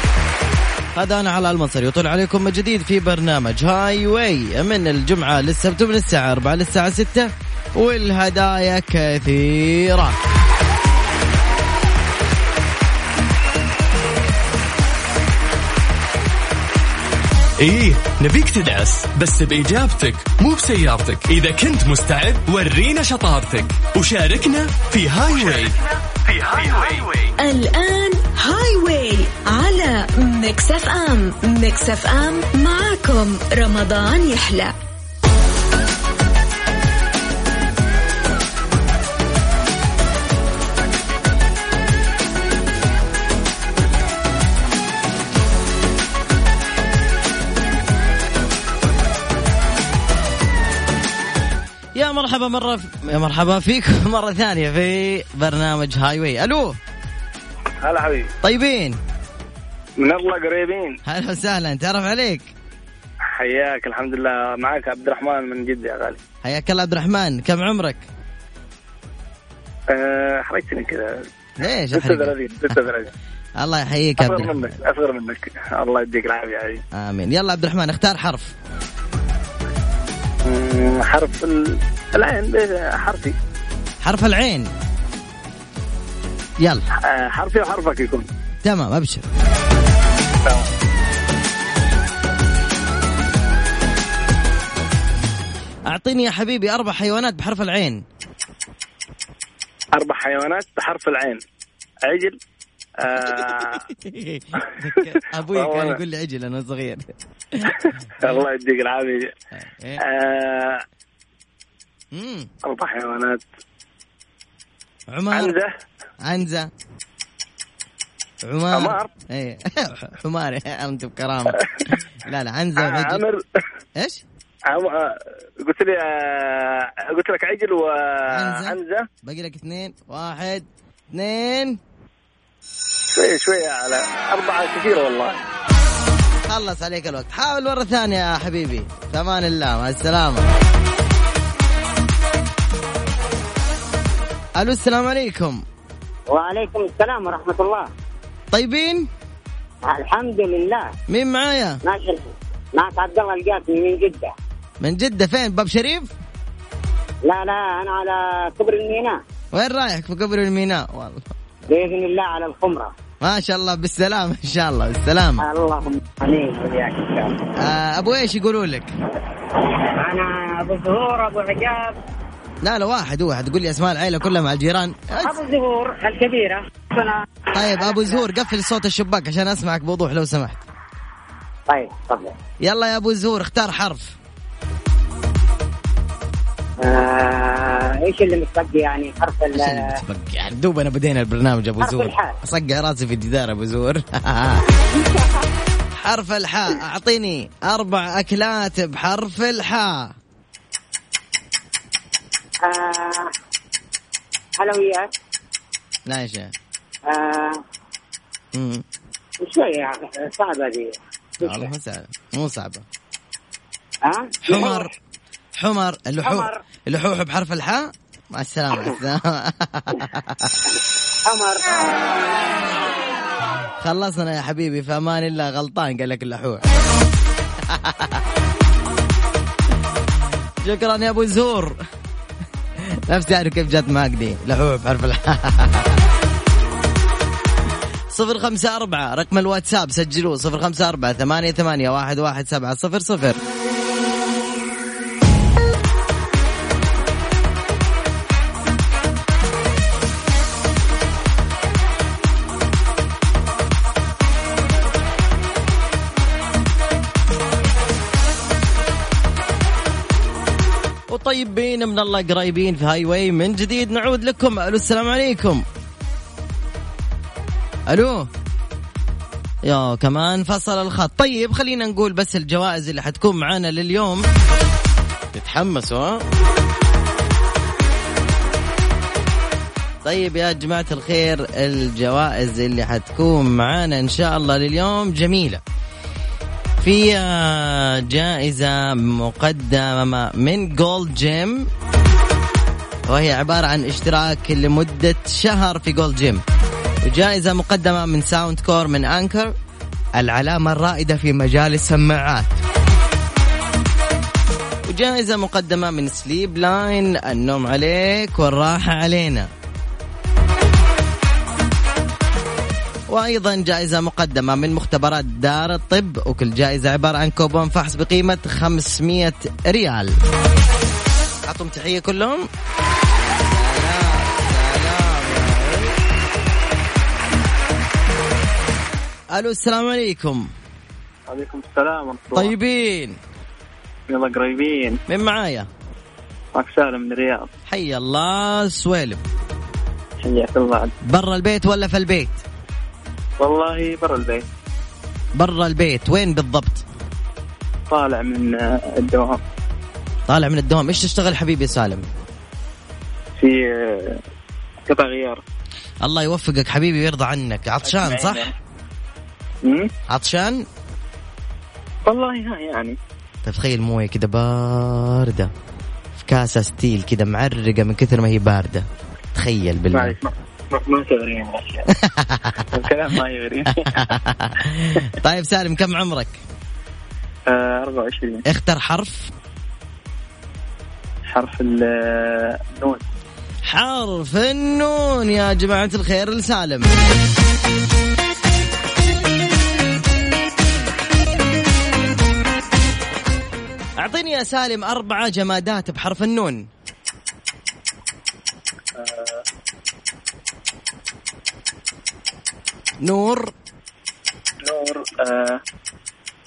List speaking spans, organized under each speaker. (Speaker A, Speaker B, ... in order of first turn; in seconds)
Speaker A: 0.9-10.2, 51.9-56.8, 58.4-59.0, 61.0-62.5, 66.4-68.1, 71.6-72.8, 73.6-74.8, 76.9-78.5, 84.0-84.7, 86.6-86.8, 88.6-89.3, 95.9-98.0, 103.2-107.7, 109.5-110.0, 112.1-112.5, 115.1-115.5, 116.2-116.7, 118.4-121.6, 122.2-123.2, 124.0-124.2, 128.3-131.8, 136.5-140.5, 144.6-145.6, 148.5-149.1, 151.1-151.8, 154.8-156.1, 159.5-161.3, 163.2-165.4, 167.6-168.9, 172.6-175.3, 177.5-180.6, 182.6-184.1, 189.5-194.6, 196.0-200.1, 206.1-206.5, 208.5-208.8, 211.4-212.8, 214.4-214.9, 215.6-220.6, 223.8-226.8, 227.6-228.2, 230.6-231.8, 232.8-236.0, 238.1-243.4, 261.1-265.6, 267.9-268.3, 269.6-274.2, 275.3-276.2, 280.0-285.6, 286.8-291.7, 293.1-296.4, 297.0-299.5, 300.1-302.6, 304.9-309.5, 313.1-320.1, 321.4-322.5, 323.3-326.0, 329.3-330.5, 332.3-333.2, 335.1-335.7, 337.7-339.2, 341.0-342.4, 345.4-346.8, 350.3-352.1, 356.0-358.5, 360.1-360.6, 363.4-365.5, 366.2-370.2, 371.9-372.6, 373.8-376.4, 378.4-379.3, 383.6-387.0, 394.0-396.7, 403.0-403.5
Speaker B: 17.6-27.3
Speaker C: 27.4-34.7
Speaker D: 57.8-58.3, 60.0-61.0, 63.4-66.2, 69.9-71.2, 71.9-73.1, 74.2-76.8, 80.5-83.3, 87.0-88.2, 100.0-101.4, 102.1-102.3, 103.0-103.8, 105.5-106.0, 108.2-109.3, 110.0-110.8, 112.6-113.4, 115.3-115.7, 118.7-119.1, 122.8-123.4, 124.7-129.1, 133.1-135.4, 331.3-332.5, 334.1-335.0, 336.6-337.5, 343.5-344.4, 347.9-349.4, 354.9-355.4, 357.9-358.3, 362.1-362.9, 369.9-371.7, 372.8-373.7, 377.6-378.3, 381.3-381.8, 382.7-383.0, 404.8-405.1
Speaker E: 146.3-147.9, 149.8-150.9, 151.8-154.3, 157.3-159.2, 161.7-162.9, 165.4-167.3, 170.0-171.9, 175.2-178.2, 181.7-182.3, 186.8-189.9, 191.8-192.3, 194.9-195.3, 202.6-203.3, 204.6-205.1, 207.1-207.6, 209.4-211.7, 214.0-214.9, 216.2-216.5, 221.2-222.1